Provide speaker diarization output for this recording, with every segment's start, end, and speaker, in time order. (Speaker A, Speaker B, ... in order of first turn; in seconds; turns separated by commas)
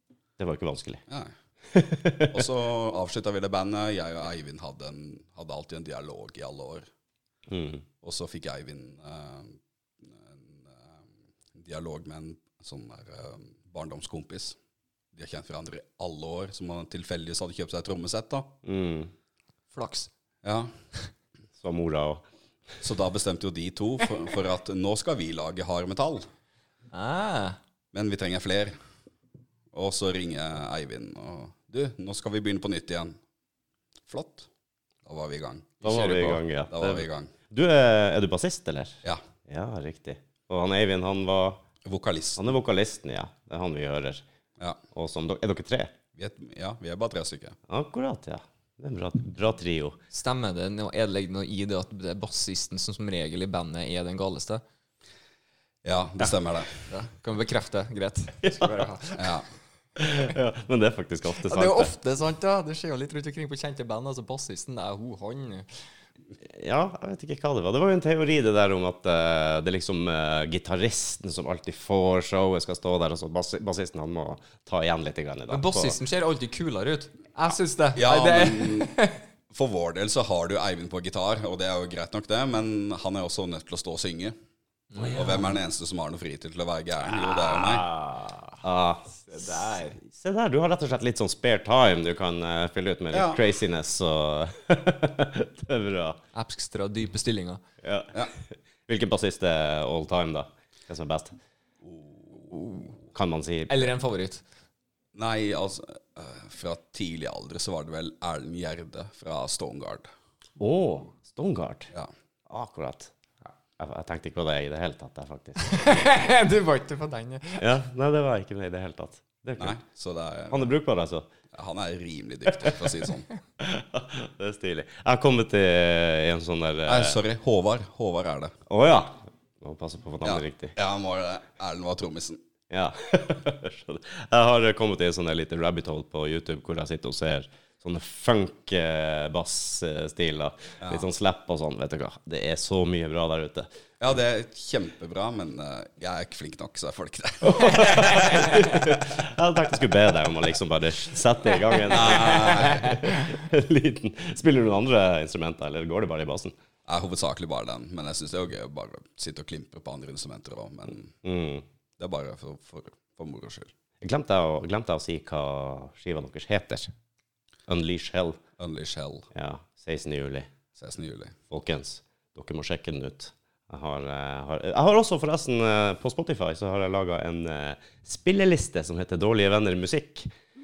Speaker A: 0.4-1.0, Speaker B: 1.1-1.3, Speaker A: 1.7-2.5, Speaker B: 2.3-6.9, Speaker A: 7.5-7.8, Speaker B: 8.0-11.0, Speaker B: 11.5-14.6, Speaker B: 15.1-18.6, Speaker A: 18.6-19.1, Speaker C: 19.7-20.1, Speaker B: 20.4-20.7, Speaker A: 21.6-22.2, Speaker B: 22.8-26.3, Speaker C: 26.9-27.6, Speaker B: 27.9-28.8, Speaker B: 29.7-33.2, Speaker B: 34.1-34.5, Speaker B: 35.0-36.0, Speaker A: 35.8-41.6, Speaker C: 35.9-36.4, Speaker B: 36.7-37.3, Speaker B: 41.9-42.5, Speaker A: 42.4-44.2, Speaker A: 44.9-46.0, Speaker B: 46.1-47.6, Speaker A: 47.7-50.0, Speaker C: 50.1-54.6, Speaker B: 55.8-56.9, Speaker C: 56.9-59.3, Speaker A: 58.4-58.8, Speaker B: 59.2-59.4, Speaker A: 60.0-61.9, Speaker C: 61.5-65.8, Speaker A: 66.5-76.0, Speaker C: 75.5-79.2, Speaker B: 78.0-78.9, Speaker B: 79.5-84.3, Speaker C: 84.9-85.5, Speaker A: 85.0-85.4, Speaker B: 85.1-87.9, Speaker A: 87.1-96.2, Speaker C: 89.2-90.0, Speaker B: 93.1-93.4, Speaker C: 96.3-97.6, Speaker A: 97.8-101.3, Speaker B: 101.8-102.5, Speaker C: 102.5-102.9, Speaker A: 103.1-103.9, Speaker C: 103.7-104.4, Speaker B: 105.2-110.1, Speaker A: 110.6-111.9, Speaker A: 112.5-115.9, Speaker C: 115.6-117.7, Speaker A: 117.6-119.8, Speaker B: 119.6-120.7, Speaker A: 120.5-121.3, Speaker B: 121.5-123.3, Speaker A: 123.6-127.2, Speaker B: 126.9-128.6, Speaker A: 128.7-130.8, Speaker B: 130.2-132.4, Speaker A: 132.7-143.7, Speaker B: 144.0-148.3, Speaker A: 147.4-156.5, Speaker C: 148.3-148.6, Speaker B: 151.9-153.0, Speaker B: 156.9-161.2, Speaker A: 161.2-161.7, Speaker B: 162.0-163.7, Speaker A: 164.0-166.9, Speaker A: 167.7-168.4, Speaker B: 168.6-169.3, Speaker A: 169.3-170.5, Speaker B: 170.8-171.4, Speaker A: 171.5-180.3